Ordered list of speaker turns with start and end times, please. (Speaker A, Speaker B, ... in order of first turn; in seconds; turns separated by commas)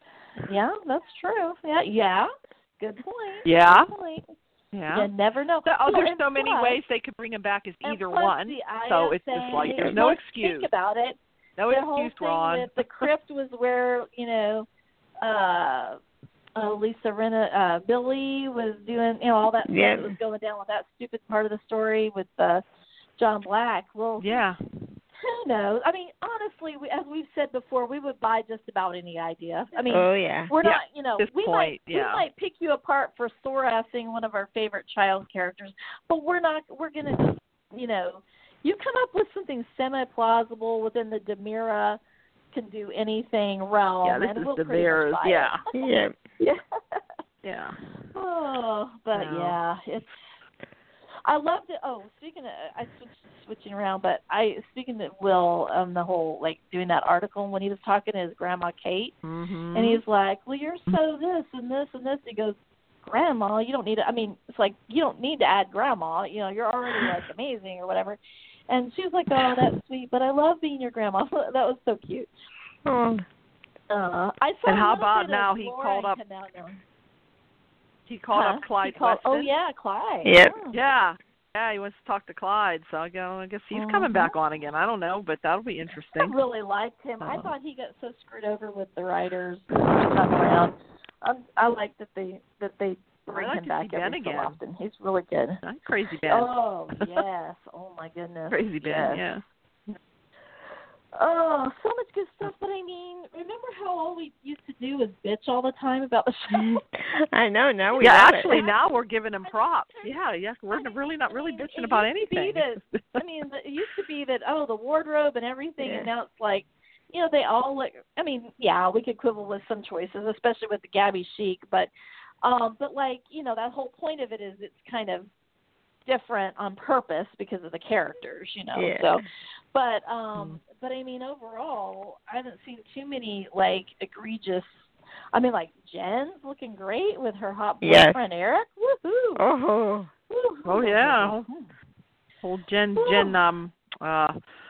Speaker A: 0.5-4.3, Speaker B: 3.4-3.9, Speaker B: 4.7-5.1, Speaker A: 4.9-6.8, Speaker B: 5.7-10.7, Speaker A: 7.8-11.2, Speaker B: 11.6-13.1, Speaker A: 11.7-14.7, Speaker A: 15.2-16.0, Speaker A: 16.6-22.6, Speaker C: 19.6-20.2, Speaker A: 23.2-24.4, Speaker B: 24.2-24.6, Speaker A: 25.2-42.0, Speaker C: 29.9-30.5, Speaker B: 30.6-32.2, Speaker A: 42.5-45.6, Speaker B: 44.0-45.6, Speaker C: 45.7-46.2, Speaker A: 46.4-47.0, Speaker B: 47.4-47.8, Speaker A: 48.1-50.4, Speaker B: 49.1-49.6, Speaker A: 51.2-59.1, Speaker B: 59.2-60.0, Speaker A: 59.7-72.3, Speaker C: 72.8-73.2, Speaker A: 73.9-76.8, Speaker B: 74.7-76.2, Speaker B: 78.1-79.5, Speaker A: 78.3-80.8, Speaker C: 80.2-80.5, Speaker B: 80.7-86.4, Speaker A: 83.7-84.3, Speaker A: 86.1-95.6, Speaker B: 87.2-87.5, Speaker B: 93.3-94.6, Speaker B: 95.6-97.2, Speaker A: 96.3-99.2, Speaker B: 98.5-99.4, Speaker A: 101.1-106.8, Speaker C: 106.5-108.6, Speaker A: 107.9-121.9, Speaker B: 108.0-113.2, Speaker C: 115.8-116.1, Speaker A: 122.4-125.3, Speaker A: 126.1-139.4, Speaker C: 128.7-129.2, Speaker C: 137.8-138.2, Speaker C: 139.3-140.1, Speaker A: 140.3-141.7, Speaker B: 140.7-141.5, Speaker B: 142.4-144.3, Speaker A: 143.0-143.4